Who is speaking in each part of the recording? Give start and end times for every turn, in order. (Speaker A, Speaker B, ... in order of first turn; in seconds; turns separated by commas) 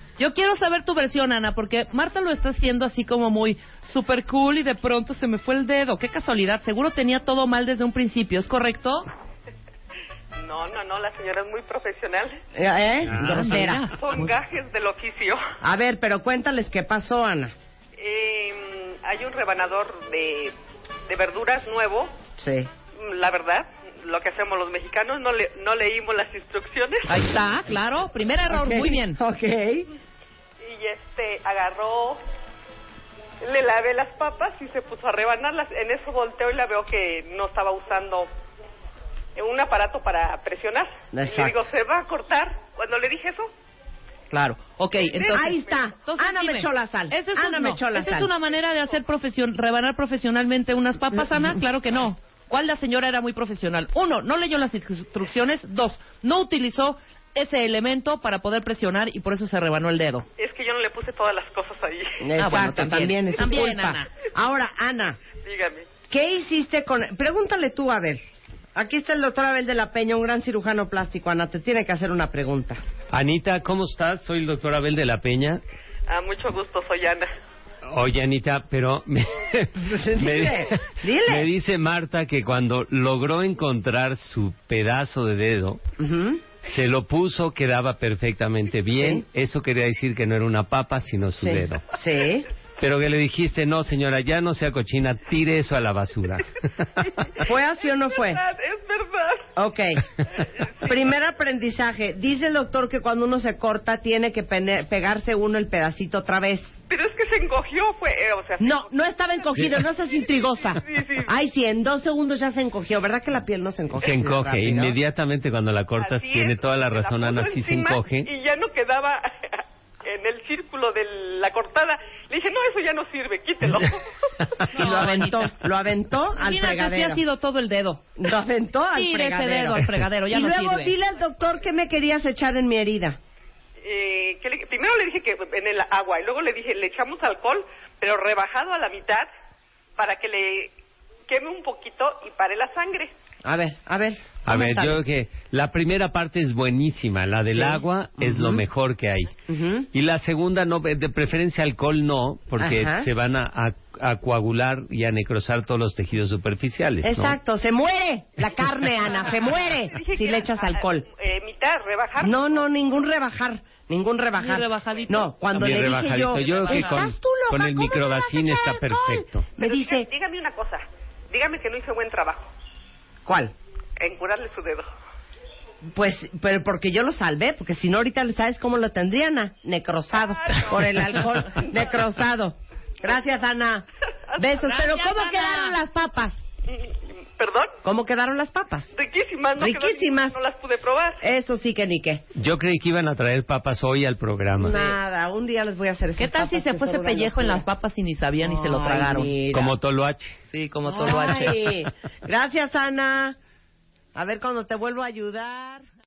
Speaker A: 0.2-9.1, Speaker B: 10.4-12.4, Speaker C: 12.5-13.8, Speaker D: 13.0-13.7, Speaker A: 13.1-14.3, Speaker B: 13.9-15.4, Speaker C: 15.6-17.5, Speaker B: 18.0-20.5, Speaker B: 21.1-22.1, Speaker C: 22.4-22.7, Speaker B: 22.9-27.1, Speaker A: 27.1-29.2, Speaker C: 28.5-29.9, Speaker B: 30.6-32.2, Speaker B: 33.4-38.3, Speaker B: 39.3-43.5, Speaker C: 41.1-41.7, Speaker A: 44.3-60.2, Speaker B: 45.0-45.5, Speaker C: 45.3-48.3, Speaker B: 60.4-62.2, Speaker C: 62.2-65.2, Speaker A: 62.4-64.1, Speaker B: 65.4-65.9, Speaker C: 66.1-68.2, Speaker C: 68.7-72.8, Speaker D: 73.1-75.6, Speaker B: 76.1-77.3, Speaker D: 77.8-85.8, Speaker C: 79.8-81.5, Speaker C: 86.0-86.4, Speaker D: 86.6-91.9, Speaker C: 89.0-89.2, Speaker C: 91.4-92.5, Speaker D: 92.8-97.1, Speaker B: 97.0-97.5, Speaker C: 97.4-98.4, Speaker B: 98.0-99.5, Speaker C: 99.5-100.1, Speaker B: 100.4-101.0, Speaker C: 100.8-106.8, Speaker B: 106.9-108.9, Speaker C: 108.6-115.0, Speaker B: 109.4-111.3, Speaker D: 114.0-118.3, Speaker B: 116.0-124.6, Speaker A: 124.7-125.5, Speaker C: 124.8-127.2, Speaker A: 126.3-128.0, Speaker C: 128.2-133.2, Speaker A: 128.9-130.9, Speaker B: 133.8-139.3, Speaker B: 140.0-140.7, Speaker B: 141.3-143.1, Speaker C: 143.4-145.0, Speaker D: 144.4-149.3, Speaker C: 147.5-148.6, Speaker C: 149.5-149.9, Speaker D: 149.9-157.4, Speaker C: 152.6-153.1, Speaker C: 157.0-161.1, Speaker B: 159.3-162.7, Speaker C: 162.2-170.1, Speaker A: 164.4-167.0, Speaker D: 165.5-169.5, Speaker B: 169.6-172.5, Speaker C: 173.2-173.5, Speaker B: 174.0-174.9, Speaker C: 175.9-186.4, Speaker B: 180.4-181.8, Speaker A: 184.5-185.8, Speaker B: 186.7-187.8, Speaker C: 187.8-188.9, Speaker B: 188.9-191.3, Speaker C: 189.6-190.4, Speaker C: 191.2-192.2, Speaker D: 192.3-194.8, Speaker C: 194.6-197.7, Speaker A: 196.2-199.3, Speaker C: 198.4-199.7, Speaker D: 199.5-200.4, Speaker A: 200.5-201.7, Speaker C: 200.8-203.4, Speaker C: 204.1-205.8